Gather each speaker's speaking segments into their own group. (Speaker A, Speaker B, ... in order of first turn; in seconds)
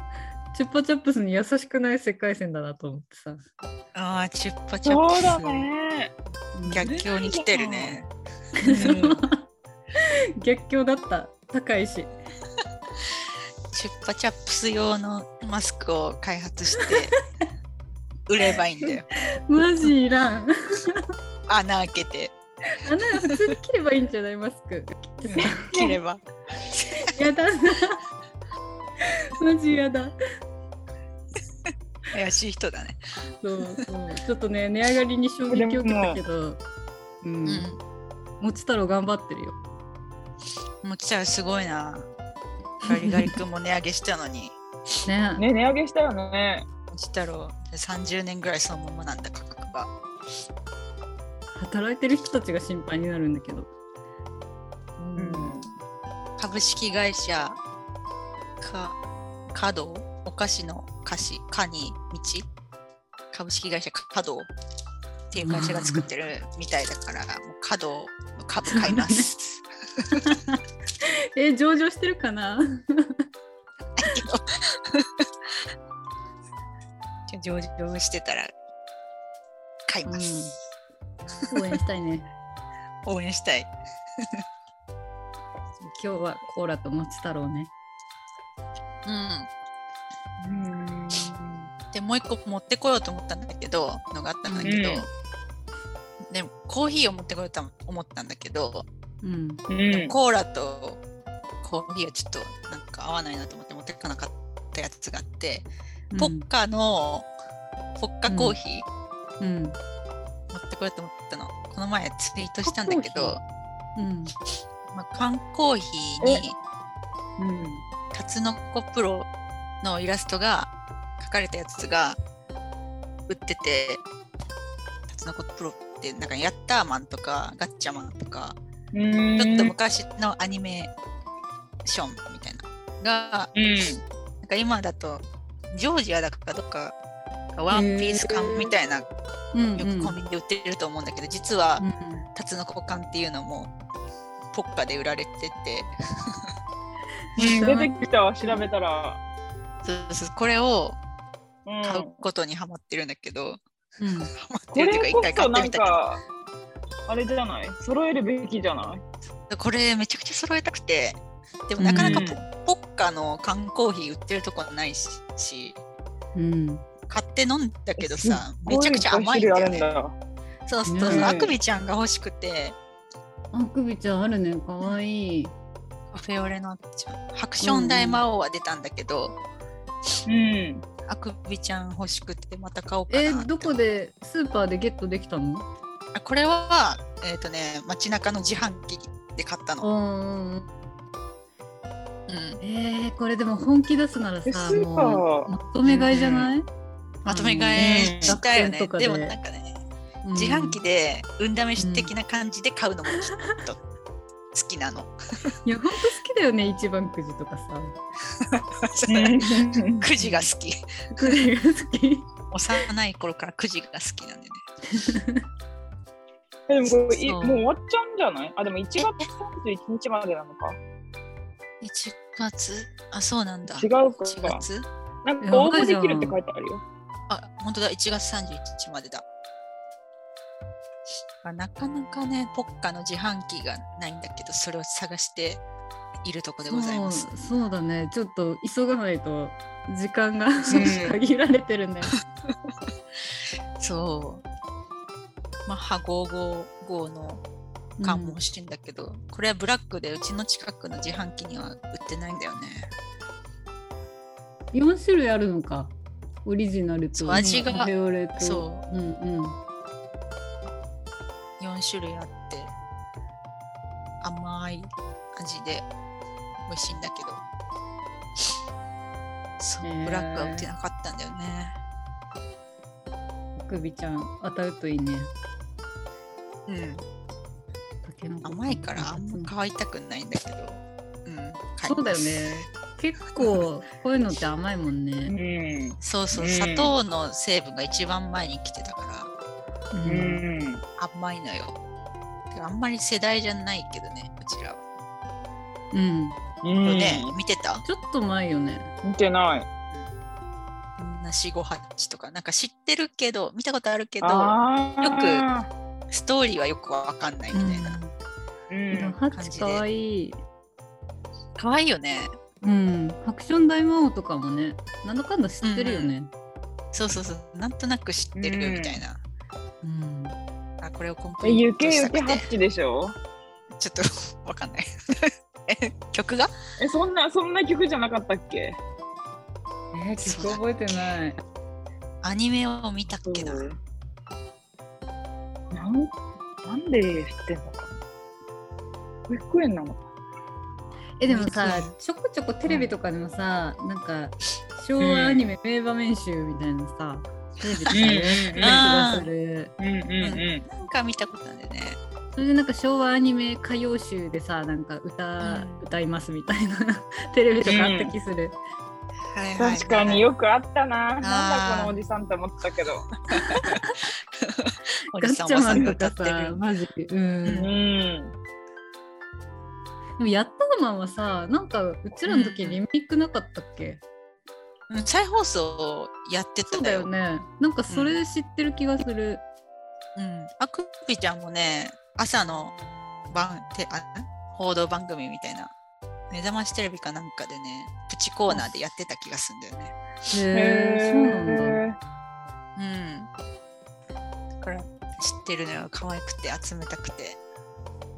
Speaker A: 0.5-3.4, 6.5-6.9, 8.6-9.4, 10.0-12.1, 16.8-17.2, 19.1-21.1, 22.7-25.7, 27.0-28.0, 29.0-30.2, 33.4-36.6, 37.2-37.7, 38.4-39.6, 42.8-43.4, 45.1-45.5, 51.5-53.7, 55.0-55.6, 65.4-66.1, 68.6-69.3, 70.2-73.3, 80.1-80.5, 81.5-82.3, 85.8-87.7, 94.5-94.8, 99.2-99.6, 106.1-106.5, 108.3-108.6, 109.4-109.8, 112.6-113.4, 114.0-114.3, 137.7-138.7, 139.5-140.2, 141.8-142.3, 147.4-148.7, 154.0-154.3, 161.8-162.2, 166.4-166.8, 170.9-171.3, 173.5-175.5, 177.6-178.2, 183.1-185.7, 189.8-190.8, 192.6-196.7, 197.3-199.4, 200.2-200.8, 201.8-202.1, 205.7-207.9, 210.2-210.5, 211.1-212.3, 214.9-215.4, 225.4-226.4, 236.7-242.1, 248.0-248.4, 254.7-255.9, 256.4-259.6, 269.8-270.7, 273.6-275.3, 278.1-279.5, 281.9-285.4, 289.9-290.4, 295.9-296.4, 297.9-298.9, 307.5-308.1, 308.9-310.4, 312.6-316.3, 319.8-320.4, 329.9-331.4, 341.2-349.7, 352.4-358.6, 363.4-364.0, 365.1-367.7, 370.2-374.0, 376.7-379.4, 390.3-391.8
Speaker B: 3.9-5.7, 6.7-8.1, 8.6-9.3, 13.7-17.1, 18.3-19.1, 21.5-22.4, 23.2-23.5, 25.3-27.2, 31.7-33.0, 37.5-37.8, 40.8-42.1, 42.8-44.6, 46.9-49.9, 56.4-57.6, 58.6-59.0, 59.5-62.5, 63.3-64.5, 65.3-70.4, 74.0-75.7, 77.3-78.5, 79.9-80.3, 83.0-84.4, 89.0-89.5, 91.9-95.1, 96.3-98.9, 99.9-101.0, 101.6-107.3, 108.0-108.9, 110.5-113.4, 114.9-116.6, 118.1-119.3, 119.8-122.2, 123.3-124.0, 125.1-128.6, 129.4-130.9, 131.8-133.5, 134.4-137.0, 137.5-139.1, 139.8-141.8, 142.3-143.7, 144.5-146.4, 149.8-151.0, 151.8-153.6, 154.3-155.9, 159.5-165.8, 167.1-169.9, 170.7-172.8, 176.1-179.4, 181.1-183.8, 186.1-189.9, 192.3-192.6, 195.8-196.5, 197.2-199.8, 200.3-203.8, 204.5-205.6, 208.3-211.3, 212.5-214.6, 217.1-217.6, 219.0-219.2, 221.8-224.9, 227.3-229.3, 231.4-235.6, 236.2-237.3, 240.7-241.1, 243.8-244.4, 245.7-247.4, 248.0-252.9, 257.1-258.9, 261.6-262.7, 264.2-265.9, 266.7-267.4, 269.6-271.8, 276.7-277.1, 278.4-282.3, 286.0-289.3, 291.0-291.8, 292.5-294.8, 296.8-297.9, 301.0-305.4, 306.1-308.0, 309.3-309.8, 311.6-312.4, 315.6-316.1, 316.9-319.2, 320.8-322.5, 323.8-326.5, 330.2-330.6, 332.2-333.7, 341.3-341.9, 347.7-349.3, 350.2-352.0, 355.4-355.9, 359.3-360.3, 361.2-362.0, 363.3-363.8, 364.4-366.6, 367.4-367.7, 372.3-372.8, 374.9-377.1, 377.9-378.2, 380.2-382.8, 383.3-385.7, 386.3-390.0, 392.8-393.3, 394.6-397.4
Speaker C: 4.8-6.1, 6.9-8.0, 35.5-36.2, 45.4-46.7, 55.2-55.7, 90.4-91.7, 94.6-95.1, 99.7-100.2, 117.4-117.8, 128.9-129.7, 133.6-134.0, 147.4-149.2, 151.7-152.2, 154.7-156.2, 157.1-159.0, 161.9-162.4, 168.0-170.2, 171.1-171.6, 180.3-180.8, 194.5-195.5, 197.8-198.4, 209.1-210.1, 216.7-220.8, 223.7-224.6, 225.2-226.8, 240.7-241.2, 285.3-286.9, 290.1-290.8, 296.6-297.3, 299.0-299.7, 304.2-305.7, 308.7-309.2, 318.4-319.0, 321.4-323.2, 326.8-328.8, 333.2-333.8, 335.7-336.1, 336.6-337.9, 339.3-340.0, 345.0-345.4, 347.9-348.8, 349.8-350.6, 357.7-358.1, 359.6-363.1, 367.6-368.4, 390.5-392.0